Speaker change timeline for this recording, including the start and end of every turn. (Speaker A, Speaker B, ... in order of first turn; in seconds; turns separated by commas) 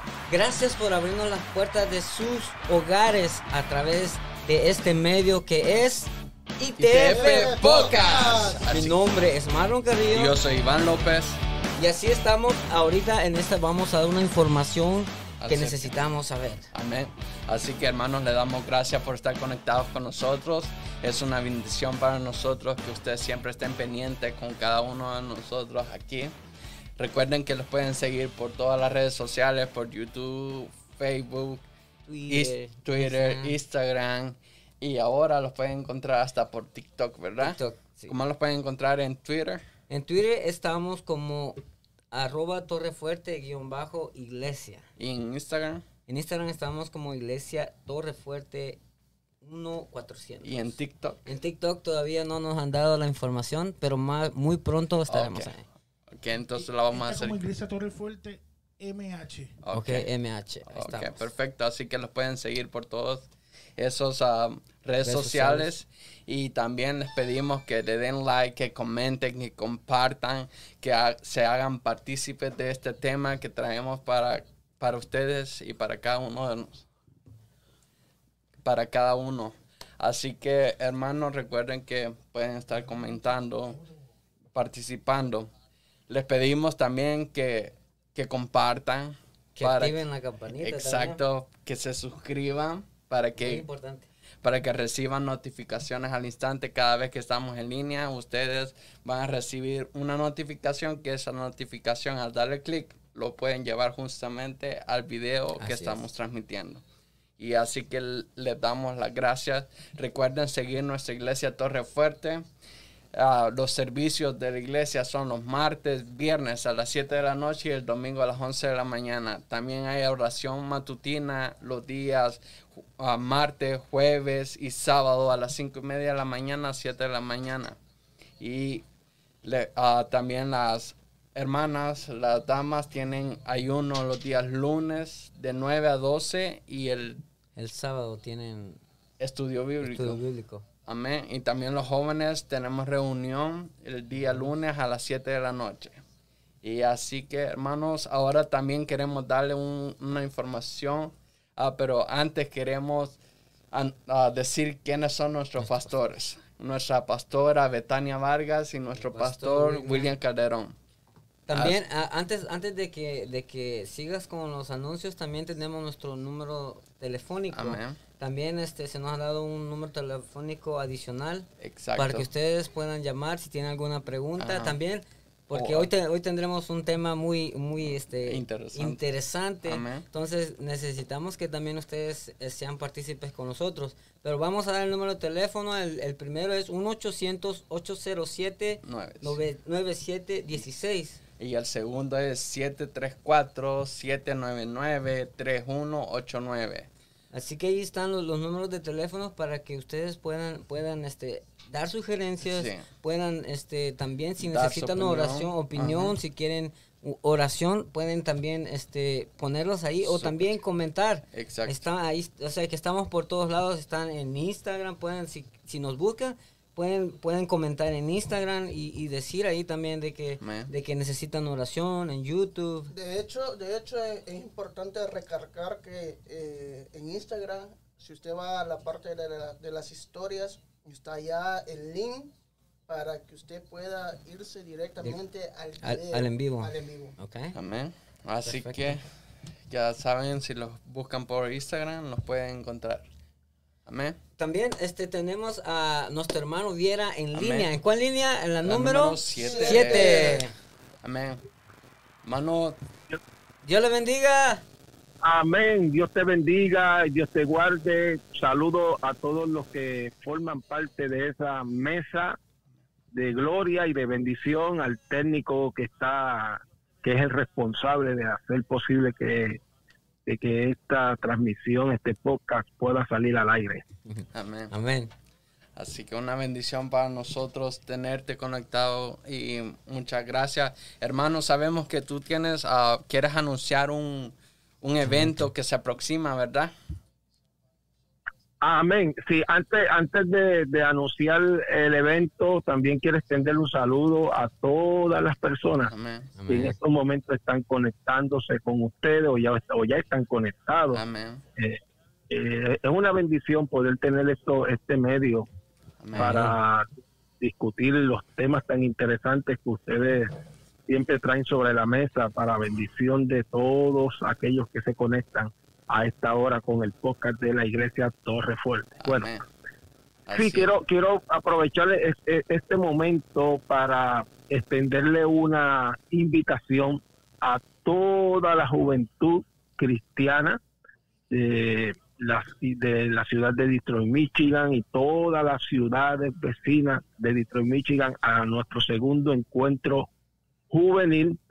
Speaker A: 0.3-7.6, Speaker B: 6.8-9.0, Speaker C: 7.1-8.6, Speaker A: 8.7-10.3, Speaker B: 10.1-11.4, Speaker A: 11.8-16.7, Speaker B: 15.4-16.0, Speaker B: 16.7-26.3, Speaker B: 27.0-31.6, Speaker A: 32.1-33.5, Speaker B: 32.3-39.6, Speaker A: 37.4-38.1, Speaker A: 39.9-41.6, Speaker A: 42.1-44.8, Speaker B: 45.0-45.8, Speaker A: 46.1-48.8, Speaker A: 49.4-50.7, Speaker B: 50.4-51.2, Speaker A: 51.2-55.6, Speaker B: 55.1-55.5, Speaker B: 56.1-57.4, Speaker D: 56.6-59.5, Speaker B: 59.6-60.1, Speaker A: 59.7-61.3, Speaker B: 60.7-76.9, Speaker A: 65.0-65.7, Speaker B: 78.6-83.8, Speaker D: 82.8-83.9, Speaker B: 84.5-85.5, Speaker B: 86.1-90.0, Speaker A: 89.6-91.2, Speaker B: 90.6-93.7, Speaker A: 93.4-94.1, Speaker B: 94.4-106.8, Speaker A: 105.6-106.0, Speaker B: 107.4-112.4, Speaker B: 113.1-127.8, Speaker B: 128.4-128.8, Speaker B: 129.4-137.2, Speaker A: 137.6-138.8, Speaker B: 139.2-140.2, Speaker A: 139.8-140.7, Speaker B: 140.8-146.0, Speaker B: 146.6-153.2, Speaker B: 153.7-160.7, Speaker A: 159.0-160.1, Speaker A: 161.5-191.2, Speaker B: 161.5-161.8, Speaker B: 167.5-168.0, Speaker B: 171.6-172.2, Speaker B: 174.4-174.8, Speaker B: 175.5-175.9, Speaker B: 178.2-179.0, Speaker B: 179.6-180.1, Speaker B: 188.8-189.4, Speaker B: 191.4-196.9, Speaker A: 197.3-222.9, Speaker B: 202.4-202.9, Speaker B: 204.4-206.1, Speaker B: 210.0-210.4, Speaker B: 211.3-211.8, Speaker B: 220.4-220.7, Speaker C: 222.9-232.3, Speaker C: 232.9-237.1, Speaker A: 235.8-237.5, Speaker B: 237.5-239.0, Speaker A: 238.4-239.0, Speaker B: 239.7-243.1, Speaker B: 243.8-244.2, Speaker A: 244.4-250.5, Speaker B: 247.3-247.7, Speaker B: 248.6-250.4, Speaker C: 249.3-250.2, Speaker B: 251.0-251.4, Speaker B: 252.2-252.8, Speaker A: 253.6-254.6, Speaker E: 255.2-262.4, Speaker E: 263.1-269.6, Speaker E: 270.2-273.8, Speaker A: 274.1-275.1, Speaker B: 274.3-274.7, Speaker B: 275.8-286.7, Speaker A: 285.0-285.5, Speaker E: 288.6-295.9, Speaker B: 295.9-296.3, Speaker A: 296.4-296.8, Speaker E: 296.5-301.0, Speaker B: 300.9-301.4, Speaker E: 302.3-305.5, Speaker B: 306.0-306.5, Speaker A: 306.1-306.5, Speaker E: 306.2-306.9, Speaker E: 307.4-310.4, Speaker E: 310.9-319.3, Speaker B: 319.0-319.4, Speaker B: 320.3-320.7, Speaker E: 320.4-330.6, Speaker E: 331.3-340.1, Speaker E: 340.7-341.4